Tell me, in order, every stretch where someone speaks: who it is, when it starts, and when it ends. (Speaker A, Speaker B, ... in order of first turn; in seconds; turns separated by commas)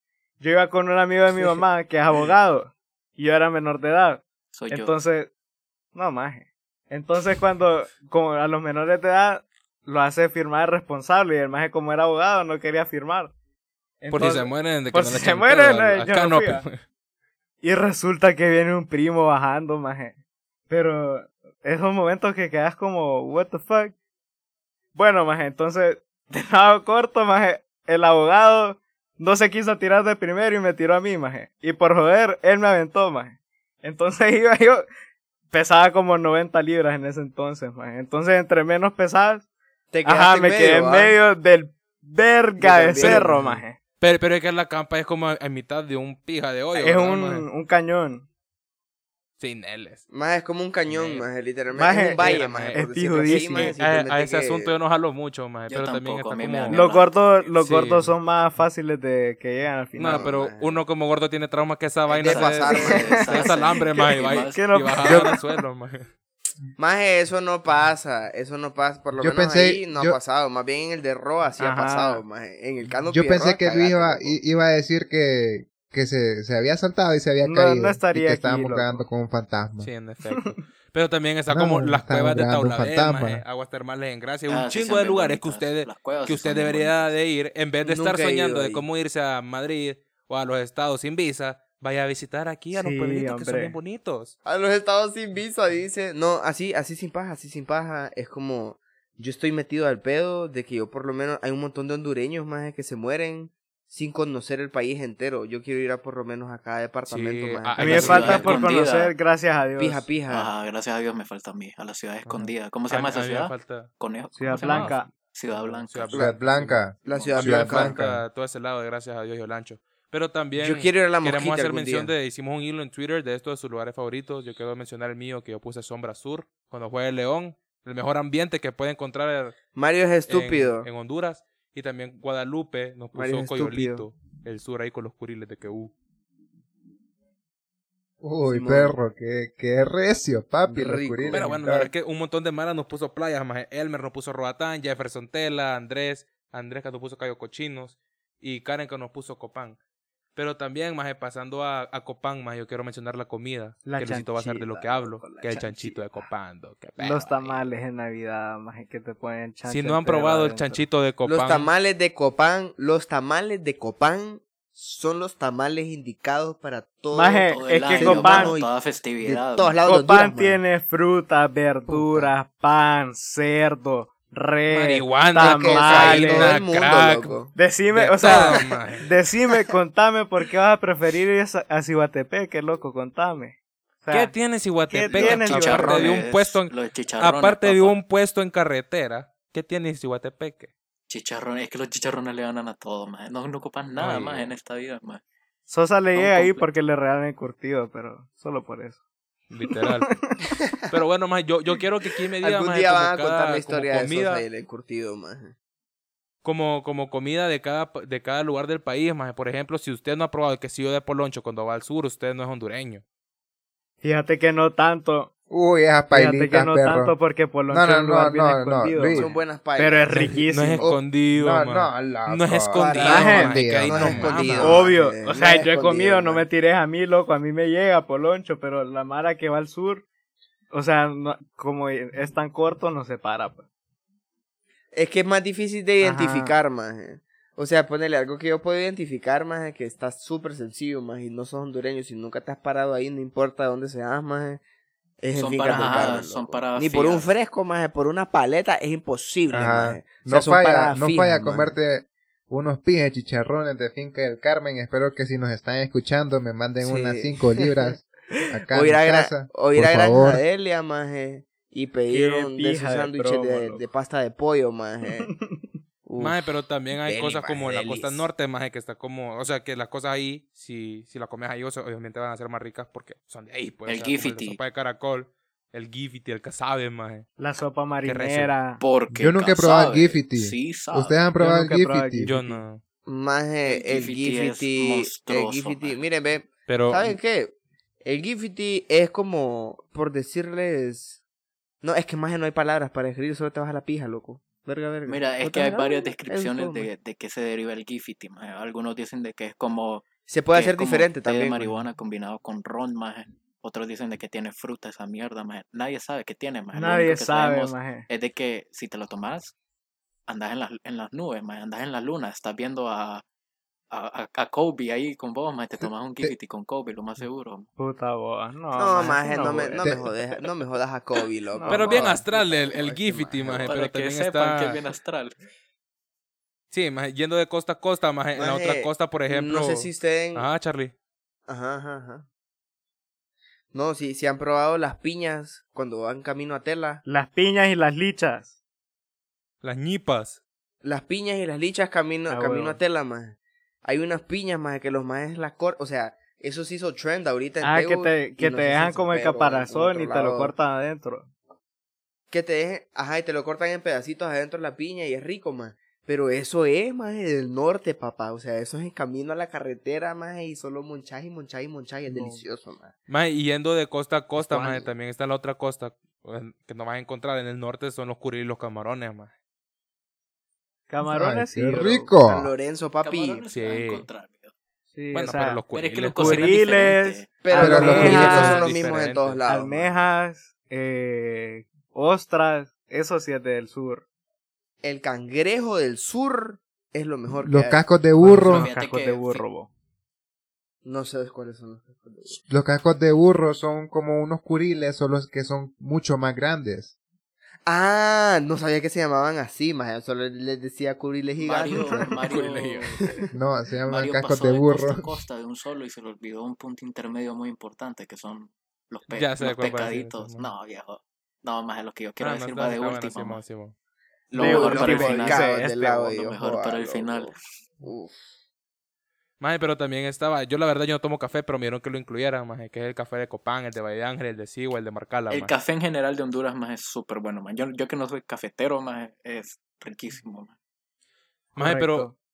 Speaker A: 0.4-5.3, Speaker B: 4.5-4.9, Speaker A: 5.9-13.3, Speaker A: 14.0-16.6, Speaker C: 14.1-16.8, Speaker A: 17.6-20.1, Speaker A: 20.7-23.9, Speaker A: 24.9-34.9, Speaker A: 35.5-39.4, Speaker D: 39.9-41.2, Speaker A: 40.0-43.8, Speaker D: 42.6-43.6, Speaker C: 43.0-43.3, Speaker C: 44.0-47.5, Speaker A: 46.7-48.2, Speaker C: 49.4-50.0, Speaker D: 50.1-54.8, Speaker C: 50.9-51.2, Speaker A: 51.7-53.8, Speaker C: 52.2-56.8, Speaker B: 55.7-57.5, Speaker A: 56.7-60.2, Speaker C: 57.6-58.1, Speaker C: 60.0-66.1, Speaker D: 60.0-60.8, Speaker B: 62.1-64.7, Speaker D: 62.1-63.2, Speaker A: 62.8-65.5, Speaker D: 66.8-74.4, Speaker E: 69.2-70.2, Speaker A: 71.6-72.2, Speaker E: 73.1-79.9, Speaker A: 77.4-79.0, Speaker C: 79.8-94.3, Speaker E: 81.5-83.4, Speaker B: 84.5-87.1, Speaker D: 87.8-88.9, Speaker A: 92.7-93.8, Speaker D: 94.4-108.5, Speaker C: 107.0-108.6, Speaker A: 107.8-110.0, Speaker B: 108.0-109.1, Speaker D: 109.8-110.5, Speaker B: 110.3-116.2, Speaker C: 112.3-113.9, Speaker A: 114.3-115.1, Speaker C: 114.5-129.6, Speaker E: 116.1-118.2, Speaker D: 117.0-118.0, Speaker B: 117.0-117.4, Speaker D: 120.6-122.1, Speaker D: 129.7-130.9, Speaker C: 130.3-135.9, Speaker D: 133.1-134.1, Speaker E: 138.2-141.9, Speaker D: 138.4-139.0, Speaker D: 140.7-141.7, Speaker C: 141.3-149.8, Speaker C: 150.3-157.6, Speaker A: 153.8-156.3, Speaker A: 157.0-160.8, Speaker C: 159.7-161.7, Speaker D: 161.2-170.6, Speaker A: 167.1-168.5, Speaker B: 167.5-169.8, Speaker A: 169.8-176.5, Speaker D: 171.9-172.3, Speaker C: 174.7-177.4, Speaker E: 175.4-176.6, Speaker D: 175.8-177.5, Speaker A: 177.5-184.3, Speaker C: 177.9-179.1, Speaker D: 178.2-178.6, Speaker C: 184.1-190.7, Speaker A: 184.9-186.1, Speaker B: 185.1-188.0, Speaker B: 191.1-195.2, Speaker C: 194.0-194.5, Speaker A: 195.7-199.0, Speaker B: 196.1-196.7, Speaker C: 199.5-200.1, Speaker A: 199.6-200.3, Speaker D: 200.6-200.9, Speaker C: 200.9-204.4, Speaker D: 202.4-205.5, Speaker C: 206.4-213.0, Speaker A: 214.0-215.3, Speaker E: 215.5-217.2, Speaker A: 216.1-220.9, Speaker E: 217.7-219.3, Speaker D: 219.1-220.2, Speaker C: 220.1-224.9, Speaker E: 220.8-224.8, Speaker D: 222.7-226.4, Speaker A: 223.0-223.5, Speaker A: 224.6-230.0, Speaker A: 230.7-233.6, Speaker D: 234.9-244.6, Speaker A: 236.0-236.6, Speaker D: 245.2-251.7, Speaker B: 245.3-247.3, Speaker E: 249.5-260.4, Speaker D: 256.8-258.0, Speaker D: 258.7-265.3, Speaker A: 262.1-263.8, Speaker D: 266.1-268.3, Speaker C: 266.2-277.3, Speaker B: 273.9-274.6, Speaker A: 277.4-278.8, Speaker C: 278.0-278.5, Speaker B: 278.8-281.2, Speaker E: 279.1-282.3, Speaker A: 281.4-282.6, Speaker C: 282.2-282.8, Speaker D: 283.1-291.2, Speaker B: 283.6-286.0, Speaker C: 286.6-287.1, Speaker D: 291.8-296.9, Speaker B: 295.1-309.5, Speaker D: 300.3-301.8, Speaker A: 306.7-308.0, Speaker B: 310.3-313.2, Speaker B: 313.9-317.7, Speaker A: 317.8-319.8, Speaker D: 318.8-323.7, Speaker A: 321.5-322.1, Speaker C: 321.7-324.8, Speaker B: 323.6-325.4, Speaker C: 326.7-330.9, Speaker D: 328.4-330.5, Speaker D: 331.5-332.2, Speaker D: 333.7-337.0, Speaker A: 337.1-338.5, Speaker C: 339.6-340.4, Speaker D: 340.8-350.5, Speaker A: 342.3-342.8, Speaker A: 347.6-351.3, Speaker D: 352.3-362.9, Speaker A: 362.1-362.4, Speaker C: 363.1-369.3, Speaker D: 364.4-364.9, Speaker A: 370.9-372.1, Speaker E: 371.1-372.5, Speaker D: 372.2-373.4, Speaker B: 373.0-374.5, Speaker C: 373.5-374.0, Speaker A: 374.9-375.6, Speaker C: 375.1-376.6, Speaker B: 375.7-377.3, Speaker A: 376.1-378.7, Speaker D: 377.4-379.9, Speaker E: 377.6-378.5, Speaker C: 377.6-379.7, Speaker A: 379.5-384.0, Speaker D: 384.8-387.8, Speaker E: 387.4-388.7, Speaker A: 388.2-389.7, Speaker B: 388.4-389.4, Speaker D: 390.8-392.4, Speaker E: 392.5-396.9, Speaker D: 397.6-402.2, Speaker B: 401.4-402.9, Speaker C: 402.2-403.0, Speaker D: 403.0-403.3, Speaker E: 403.3-405.2, Speaker B: 403.9-413.4, Speaker C: 409.1-410.5, Speaker C: 412.2-413.7, Speaker B: 414.3-417.4, Speaker A: 414.3-415.7, Speaker D: 414.3-418.3, Speaker C: 419.4-425.5, Speaker B: 425.3-430.5, Speaker C: 431.6-432.1, Speaker A: 431.6-432.1